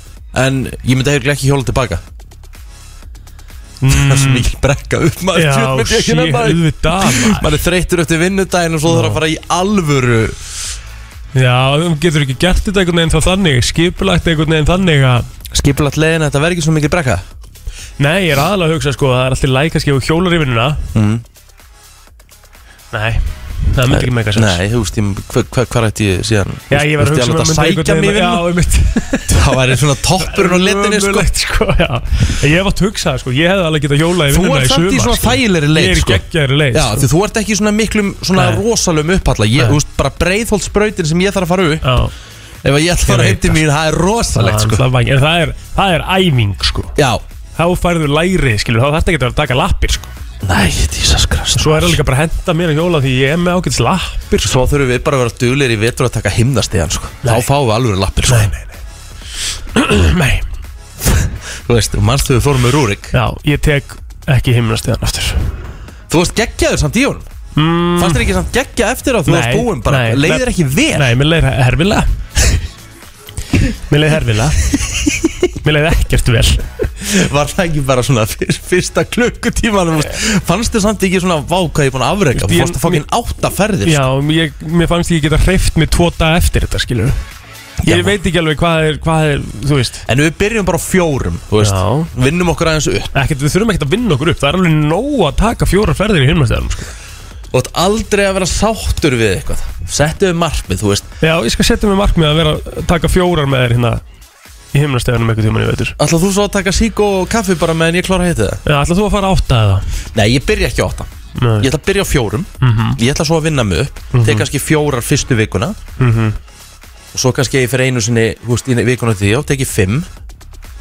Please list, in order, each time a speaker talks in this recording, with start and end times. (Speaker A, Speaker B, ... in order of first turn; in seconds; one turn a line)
Speaker A: 0.3-2.0
Speaker B: 3.8-4.5
Speaker A: 3.9-10.4
Speaker B: 5.3-7.5
Speaker B: 8.9-9.2
Speaker B: 11.3-15.3
Speaker A: 15.5-17.2
Speaker B: 18.0-20.8
Speaker A: 20.9-21.2
Speaker B: 22.9-24.6
Speaker A: 23.9-28.5
Speaker B: 26.7-37.1
Speaker A: 29.3-31.3
Speaker A: 34.3-41.9
Speaker B: 38.3-38.6
Speaker B: 41.8-42.1
Speaker A: 42.6-44.8
Speaker B: 43.1-43.6
Speaker B: 44.4-46.9
Speaker A: 47.0-47.2
Speaker B: 47.6-50.1
Speaker A: 50.4-52.0
Speaker B: 51.5-54.6
Speaker A: 54.4-58.5
Speaker B: 58.2-58.7
Speaker B: 59.7-60.4
Speaker A: 61.6-63.1
Speaker B: 63.1-65.5
Speaker A: 66.1-67.2
Speaker B: 67.5-68.2
Speaker A: 68.0-71.1
Speaker B: 69.2-72.6
Speaker B: 73.9-74.8
Speaker B: 75.5-76.7
Speaker A: 77.0-84.1
Speaker B: 82.3-83.0
Speaker B: 83.8-87.2
Speaker A: 87.8-88.2
Speaker B: 87.8-90.0
Speaker A: 90.0-93.1
Speaker B: 91.6-92.1
Speaker B: 93.1-96.9
Speaker A: 97.5-101.0
Speaker B: 101.2-104.0
Speaker B: 104.7-106.0
Speaker A: 106.0-108.6
Speaker B: 108.7-109.8
Speaker A: 110.1-115.8
Speaker B: 111.4-111.7
Speaker B: 112.6-113.0
Speaker B: 114.1-114.5
Speaker B: 116.0-116.4
Speaker A: 117.1-120.1